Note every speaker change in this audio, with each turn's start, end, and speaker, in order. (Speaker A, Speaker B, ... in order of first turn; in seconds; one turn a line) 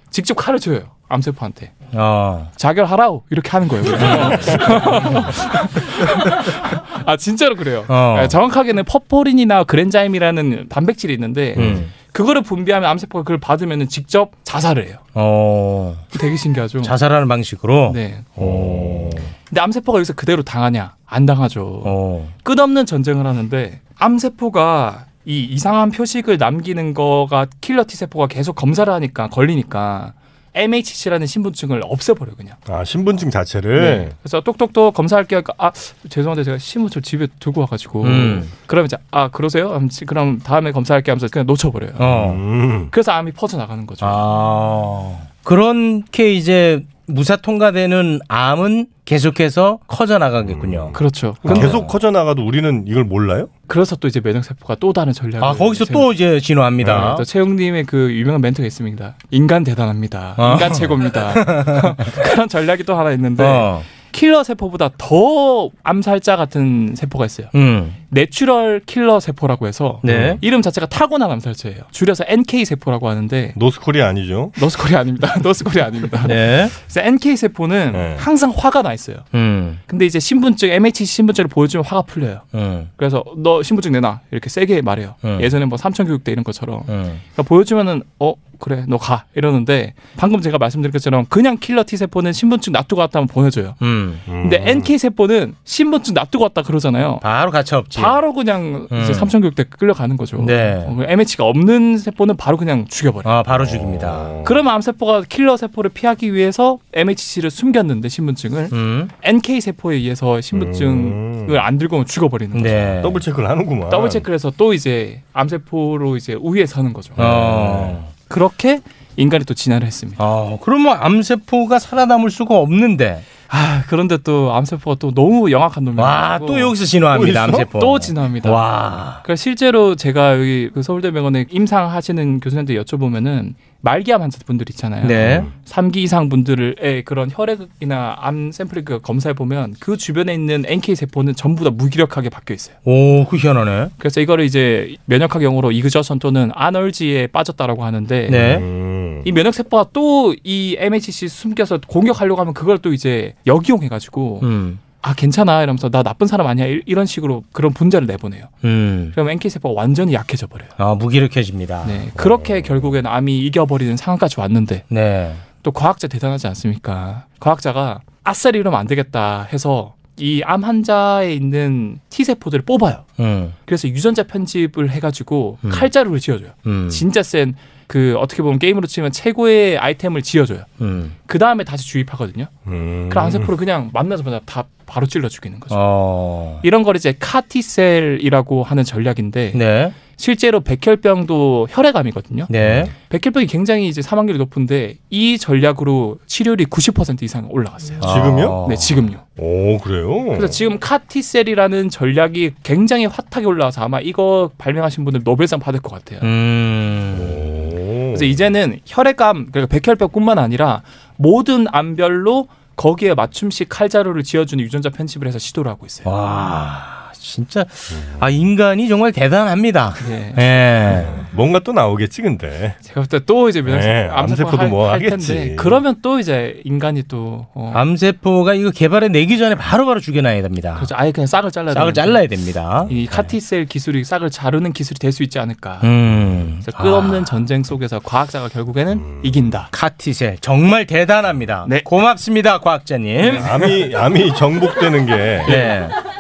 Speaker A: 0.1-1.8
Speaker B: 1.9-2.5
Speaker A: 2.6-15.0
Speaker B: 4.0-4.6
Speaker B: 7.9-8.4
Speaker B: 11.6-11.9
Speaker B: 15.2-16.0
Speaker A: 16.1-17.0
Speaker B: 16.8-18.0
Speaker A: 17.9-18.4
Speaker C: 18.4-19.3
Speaker B: 18.7-19.0
Speaker A: 19.4-32.6
Speaker B: 21.8-22.3
Speaker C: 32.7-34.1
Speaker A: 33.8-42.1
Speaker B: 38.0-38.5
Speaker B: 42.0-42.4
Speaker C: 42.1-42.9
Speaker A: 42.9-44.2
Speaker B: 44.0-51.9
Speaker C: 50.5-50.9
Speaker A: 51.0-51.8
Speaker C: 51.5-53.5
Speaker A: 53.7-56.1
Speaker B: 55.4-57.3
Speaker A: 56.9-67.5
Speaker B: 60.4-62.1
Speaker B: 63.4-63.9
Speaker B: 67.5-68.0
Speaker A: 68.1-73.6
Speaker B: 70.0-70.4
Speaker C: 70.1-70.4
Speaker C: 73.6-74.5
Speaker A: 74.6-79.3
Speaker B: 76.2-76.8
Speaker C: 77.9-78.2
Speaker B: 79.3-79.8
Speaker A: 79.9-82.5
Speaker B: 82.5-82.9
Speaker A: 83.0-93.8
Speaker B: 85.2-85.5
Speaker B: 86.9-87.2
Speaker B: 93.8-94.3
Speaker C: 94.3-94.9
Speaker A: 94.4-97.2
Speaker B: 97.2-98.2
Speaker A: 97.9-103.3
Speaker B: 98.9-99.3
Speaker B: 100.4-101.0
Speaker B: 103.2-104.3
Speaker C: 103.8-104.5
Speaker A: 104.5-112.9
Speaker B: 108.7-109.1
Speaker C: 110.5-111.6
Speaker B: 112.5-113.2
Speaker C: 113.0-114.2
Speaker A: 113.9-117.5
Speaker B: 117.2-118.1
Speaker A: 118.2-120.2
Speaker B: 120.2-123.3
Speaker A: 123.5-126.8
Speaker B: 126.0-129.2
Speaker C: 127.2-127.5
Speaker A: 127.7-128.7
Speaker A: 129.2-142.8
Speaker B: 135.0-135.5
Speaker B: 142.8-143.9
Speaker A: 144.0-148.6
Speaker B: 148.3-148.7
Speaker C: 148.6-149.2
Speaker A: 149.2-154.5
Speaker B: 154.4-154.8
Speaker A: 155.0-158.6
Speaker B: 158.6-159.2
Speaker A: 159.2-160.7
Speaker B: 160.8-162.1
Speaker A: 161.8-164.9
Speaker B: 164.9-165.4
Speaker A: 165.5-173.1
Speaker B: 173.2-173.6
Speaker A: 173.7-180.7
Speaker B: 175.6-175.9
Speaker B: 176.6-177.1
Speaker B: 180.8-181.2
Speaker A: 181.3-182.5
Speaker C: 182.7-183.5
Speaker A: 183.1-185.8
Speaker B: 185.7-186.6
Speaker A: 186.6-192.5
Speaker B: 189.5-190.0
Speaker B: 192.5-192.9
Speaker A: 193.0-198.1
Speaker B: 198.0-199.1
Speaker C: 198.1-198.5
Speaker A: 198.6-199.2
Speaker C: 199.4-200.5
Speaker A: 200.4-206.3
Speaker B: 206.2-207.5
Speaker C: 207.3-208.2
Speaker A: 208.1-216.1
Speaker B: 216.1-221.1
Speaker A: 220.0-220.6
Speaker C: 221.2-222.8
Speaker A: 222.8-227.8
Speaker C: 223.7-225.7
Speaker B: 227.7-230.9
Speaker A: 230.8-232.2
Speaker B: 231.7-233.3
Speaker A: 232.9-235.9
Speaker B: 235.8-237.4
Speaker A: 236.6-239.7
Speaker B: 239.7-243.5
Speaker C: 243.4-245.5
Speaker B: 245.5-245.9